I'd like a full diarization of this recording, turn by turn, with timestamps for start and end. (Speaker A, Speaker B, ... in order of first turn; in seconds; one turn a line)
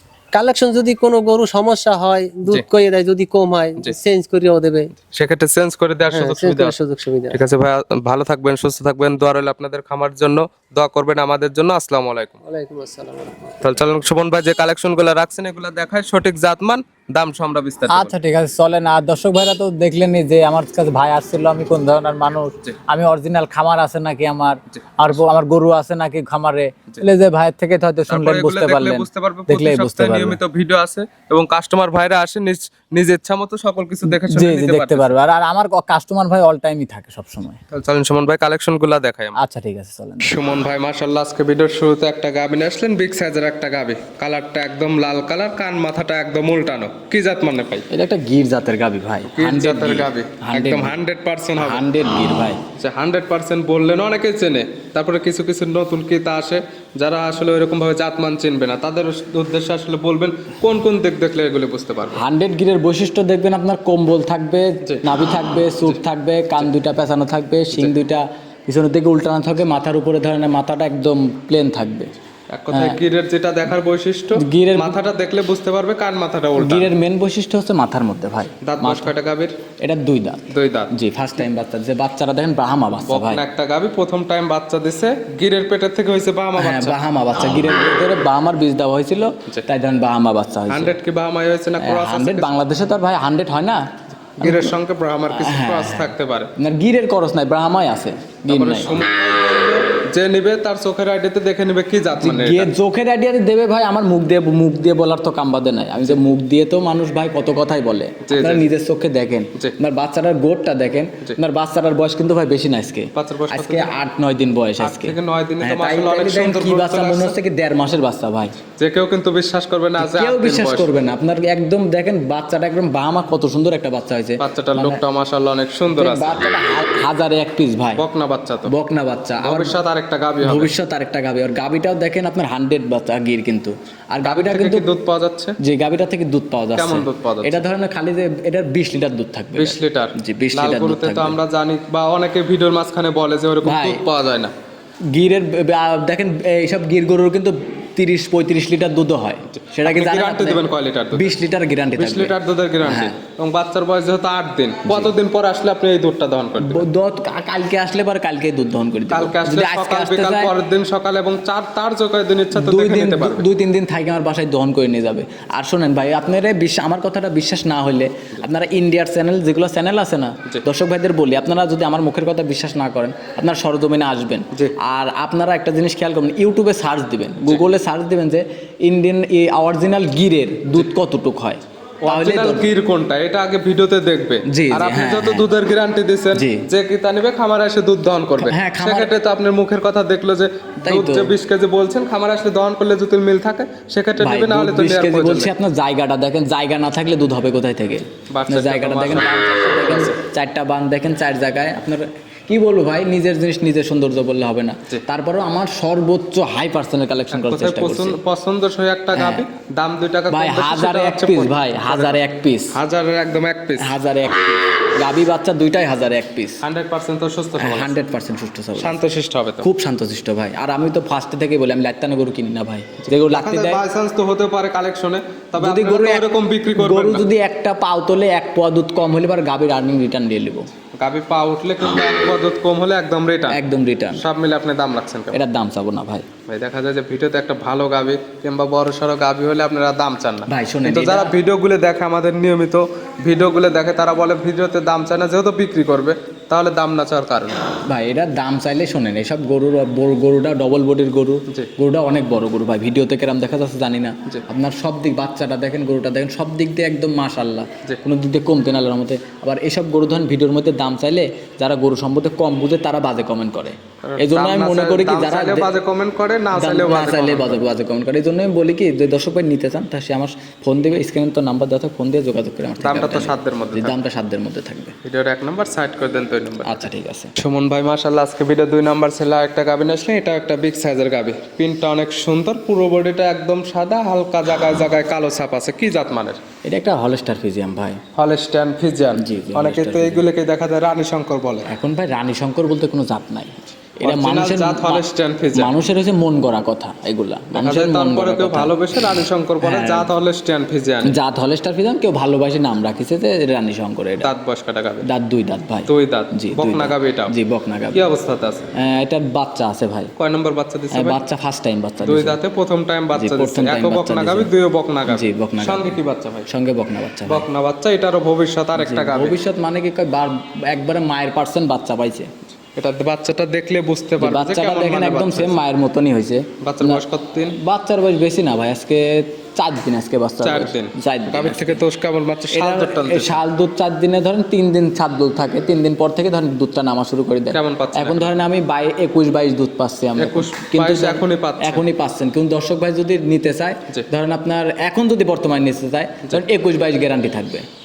Speaker A: 0.3-4.9
Speaker B: 5.1-6.8
Speaker A: 6.1-7.4
Speaker B: 7.3-12.4
Speaker A: 12.4-13.5
Speaker B: 13.6-18.1
Speaker C: 17.9-30.4
Speaker B: 24.7-25.2
Speaker B: 28.1-35.1
Speaker C: 34.0-37.6
Speaker B: 37.7-39.4
Speaker C: 39.4-40.3
Speaker B: 40.2-47.9
Speaker C: 47.9-50.9
Speaker B: 49.3-51.9
Speaker C: 51.6-52.6
Speaker B: 52.8-62.2
Speaker C: 62.1-72.1
Speaker B: 72.5-76.9
Speaker C: 72.7-73.0
Speaker C: 74.3-75.0
Speaker C: 76.5-79.1
Speaker B: 78.6-79.5
Speaker C: 79.8-83.4
Speaker B: 80.5-80.9
Speaker B: 83.0-87.0
Speaker C: 86.6-90.9
Speaker B: 90.7-92.5
Speaker C: 91.8-93.8
Speaker B: 94.4-96.5
Speaker C: 94.4-94.8
Speaker C: 95.3-99.0
Speaker B: 98.5-102.7
Speaker C: 102.2-118.6
Speaker B: 108.2-108.7
Speaker B: 113.1-113.9
Speaker B: 114.8-117.4
Speaker B: 118.7-120.9
Speaker C: 120.0-125.0
Speaker B: 124.4-126.4
Speaker C: 125.9-128.0
Speaker B: 128.0-128.7
Speaker C: 128.7-129.8
Speaker B: 129.4-130.7
Speaker C: 130.4-134.8
Speaker B: 134.2-135.6
Speaker C: 135.6-141.4
Speaker B: 136.7-137.6
Speaker B: 139.6-144.5
Speaker C: 143.6-144.0
Speaker C: 145.1-153.2
Speaker B: 149.5-151.3
Speaker B: 151.9-156.8
Speaker C: 154.8-155.1
Speaker C: 156.6-160.5
Speaker B: 159.1-163.4
Speaker C: 162.5-182.7
Speaker B: 182.0-195.5
Speaker C: 184.4-185.5
Speaker C: 186.3-186.7
Speaker C: 188.4-189.1
Speaker C: 190.8-191.3
Speaker C: 194.2-208.2
Speaker B: 198.3-200.2
Speaker B: 207.3-212.2
Speaker C: 209.1-209.4
Speaker C: 210.3-212.7
Speaker B: 212.7-214.0
Speaker C: 213.8-216.6
Speaker B: 216.6-217.9
Speaker C: 217.6-219.0
Speaker B: 218.8-219.7
Speaker C: 219.6-223.8
Speaker B: 223.0-227.2
Speaker C: 225.6-230.7
Speaker B: 231.0-233.6
Speaker C: 233.5-234.2
Speaker B: 234.1-235.3
Speaker C: 235.3-236.3
Speaker B: 236.5-247.6
Speaker C: 240.5-241.3
Speaker C: 247.8-265.7
Speaker B: 264.0-267.6
Speaker C: 266.5-274.9
Speaker B: 272.8-273.9
Speaker B: 275.0-276.7
Speaker C: 276.6-277.3
Speaker B: 277.4-286.4
Speaker C: 286.6-288.0
Speaker B: 288.1-291.7
Speaker C: 289.1-290.2
Speaker C: 291.7-300.1
Speaker B: 294.0-295.7
Speaker B: 297.5-301.2
Speaker C: 301.0-304.3
Speaker B: 304.2-305.1
Speaker C: 305.0-308.1
Speaker B: 305.9-307.3
Speaker B: 307.9-308.7
Speaker C: 308.8-310.1
Speaker B: 310.2-311.2
Speaker C: 310.9-312.4
Speaker B: 312.0-316.5
Speaker C: 313.1-314.5
Speaker C: 315.1-317.5
Speaker B: 317.3-319.4
Speaker C: 318.8-322.3
Speaker B: 322.6-325.6
Speaker C: 324.2-327.0
Speaker B: 326.6-327.6
Speaker C: 327.6-331.8
Speaker B: 330.4-333.4
Speaker C: 332.5-347.6
Speaker B: 337.5-338.3
Speaker B: 340.1-341.8